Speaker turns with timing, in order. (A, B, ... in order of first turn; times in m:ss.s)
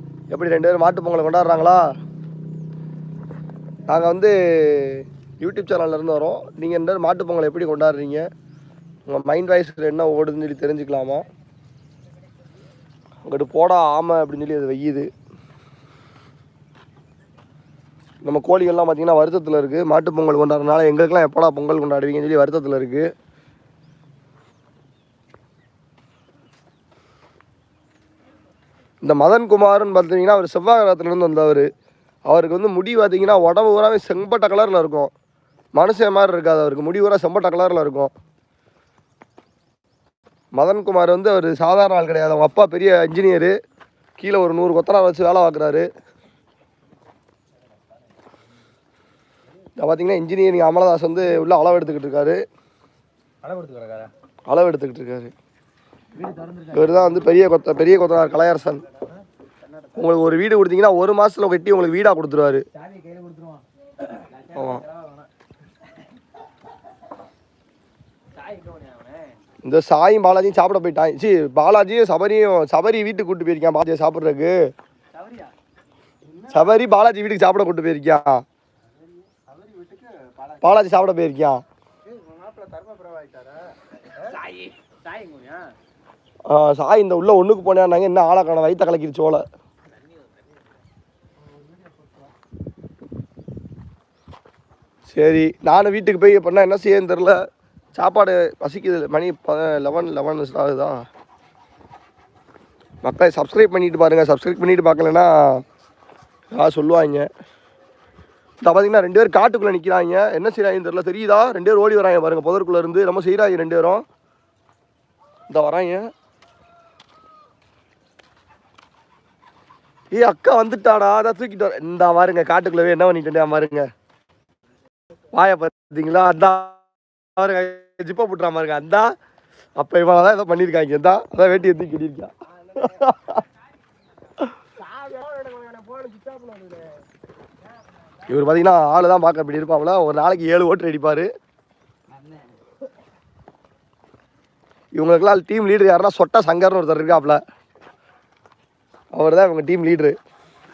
0:00.3-0:01.9 A
0:03.9-0:08.3 A
0:09.1-0:11.3 A
0:13.2-0:15.1 A
0:18.2-0:23.1 A
0:29.0-0:31.7 A
0:32.3-0:35.1 A
0:35.7-0:38.1 A
0:40.5-0:43.6 A
0:44.2-0:45.9 A
0:49.8-0:52.4 A
0:53.4-0:54.1 B
0:54.5-0:55.3 A
0:56.2-0:57.4 B
0:56.7-0:58.8 A
0:59.6-1:00.2 B
1:00.0-1:02.6 A
1:02.7-1:05.3 B
1:04.6-1:04.8 A
1:08.3-1:09.4 B
1:09.6-1:14.7 A
1:15.1-1:15.5 B
1:16.2-1:16.9 C
1:16.5-1:18.4 A
1:18.9-1:20.8 C
1:20.6-1:21.6 A
1:22.0-1:24.4 C
1:24.2-1:25.6 B
1:26.5-1:29.4 A
1:29.9-1:30.6 B
1:31.4-1:32.3 C
1:35.1-1:37.4 A
1:38.0-1:41.0 A
1:43.0-1:45.6 A
1:46.5-1:47.3 A
1:48.6-1:54.0 A
1:55.5-1:56.1 A
2:00.1-2:03.9 A
2:05.3-2:09.2 A
2:09.8-2:13.4 A
2:12.5-2:13.0 B
2:14.8-2:16.8 B
2:17.9-2:18.2 B
2:18.3-2:21.3 A
2:22.1-2:22.6 B
2:24.9-2:27.4 A
2:29.1-2:30.2 A